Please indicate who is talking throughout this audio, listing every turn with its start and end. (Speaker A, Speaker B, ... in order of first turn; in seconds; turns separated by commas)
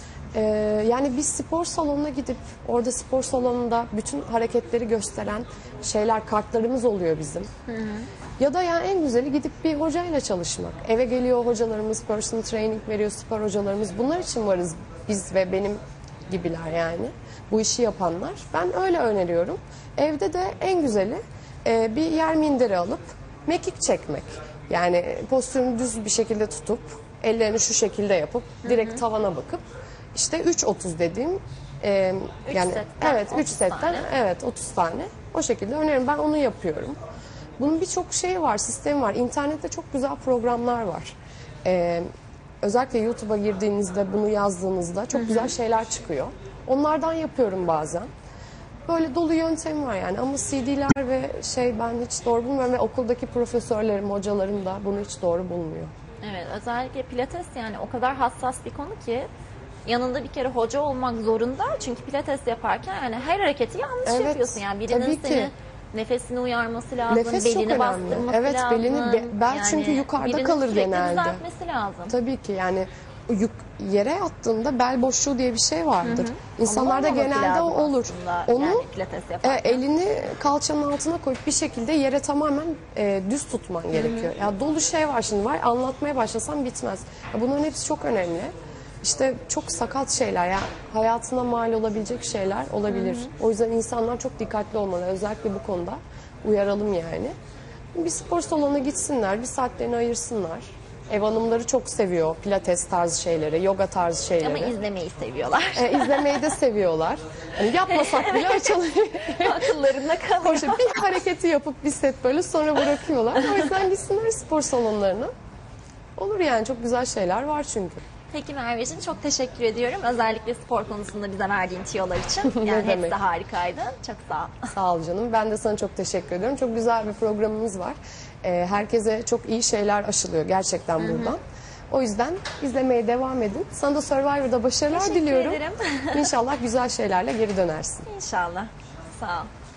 Speaker A: 0.3-7.5, Speaker B: 7.7-8.1, Speaker A: 8.4-29.6, Speaker B: 28.6-29.0, Speaker A: 30.1-37.0, Speaker B: 32.5-34.1, Speaker A: 37.6-42.1, Speaker A: 42.6-48.1, Speaker B: 45.1-45.5, Speaker A: 48.9-55.9, Speaker B: 56.2-59.3, Speaker B: 59.9-72.2, Speaker A: 64.0-65.5, Speaker A: 67.1-71.4, Speaker A: 72.1-78.9, Speaker B: 76.0-79.8, Speaker A: 79.4-97.3, Speaker B: 83.9-84.3, Speaker B: 92.9-93.3, Speaker A: 98.0-104.8, Speaker B: 104.4-106.5, Speaker A: 105.8-115.3, Speaker B: 107.8-111.1, Speaker A: 116.2-118.0, Speaker B: 118.3-124.7, Speaker A: 122.5-123.2, Speaker A: 124.7-131.4, Speaker B: 131.0-131.4, Speaker A: 131.9-138.1, Speaker B: 134.9-136.3, Speaker B: 138.1-139.5